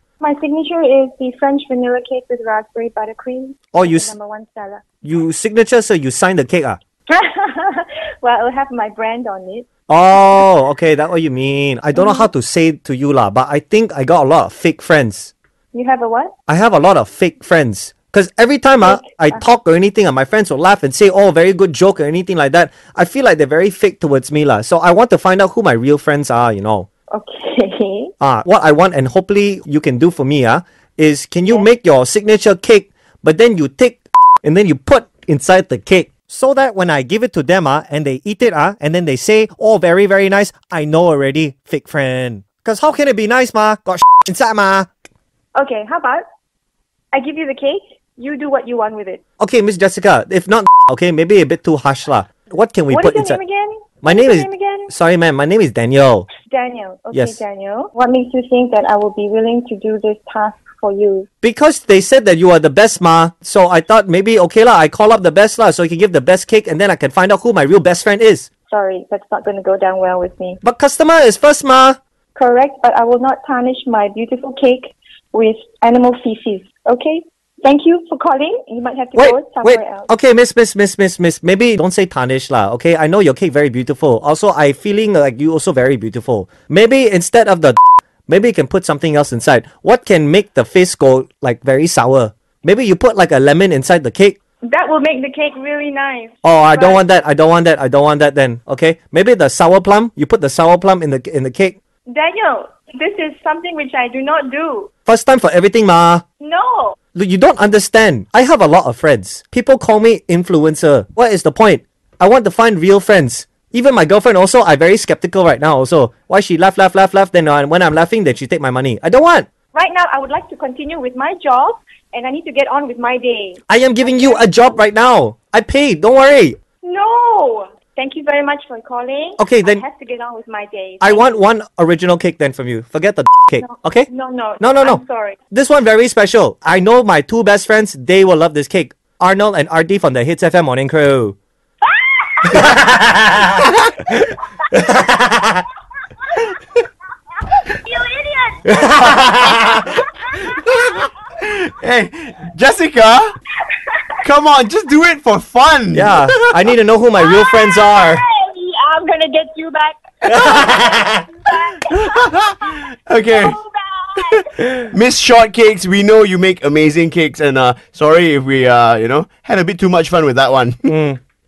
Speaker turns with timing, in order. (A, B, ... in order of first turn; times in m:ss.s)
0:00.2-0:04.8 A
0:03.7-0:04.1 B
0:05.0-0:06.8 B
0:07.1-0:09.6 A
0:09.9-0:15.3 B
0:11.9-0:12.3 A
0:15.7-0:16.3 A
0:16.5-0:26.9 B
0:18.8-0:19.4 A
0:27.1-0:28.1 A
0:28.2-0:44.9 B
0:45.5-0:46.2 A
0:47.1-0:49.2 A
0:49.4-0:53.4 B
0:52.9-0:54.9 A
0:54.0-0:56.3 B
0:56.5-1:01.3 A
0:57.1-0:57.4 B
1:01.4-1:08.5 B
1:08.7-1:10.6 A
1:10.6-1:12.0 B
1:12.3-1:20.1 A
1:19.2-1:34.4 B
1:34.6-1:37.0 A
1:36.4-1:41.7 B
1:42.1-1:44.9 A
1:45.1-1:46.2 B
1:46.4-1:47.0 A
1:47.1-1:59.5 B
1:59.7-2:04.8 A
2:03.7-2:06.6 B
2:06.8-2:11.3 A
2:09.4-2:09.8 B
2:11.0-2:14.1 B
2:13.6-2:15.4 A
2:14.6-2:15.0 B
2:15.5-2:21.4 B
2:21.8-2:22.8 A
2:22.5-2:23.5 B
2:24.1-2:25.6 B
2:27.6-2:31.0 A
2:28.7-2:29.7 B
2:30.6-2:33.3 C
2:33.7-2:34.0 A
2:34.2-2:36.4 C
2:35.9-2:38.2 B
2:37.2-2:44.7 A
2:40.2-2:41.2 C
2:41.9-2:43.6 C
2:44.2-2:50.9 C
2:50.8-2:51.2 B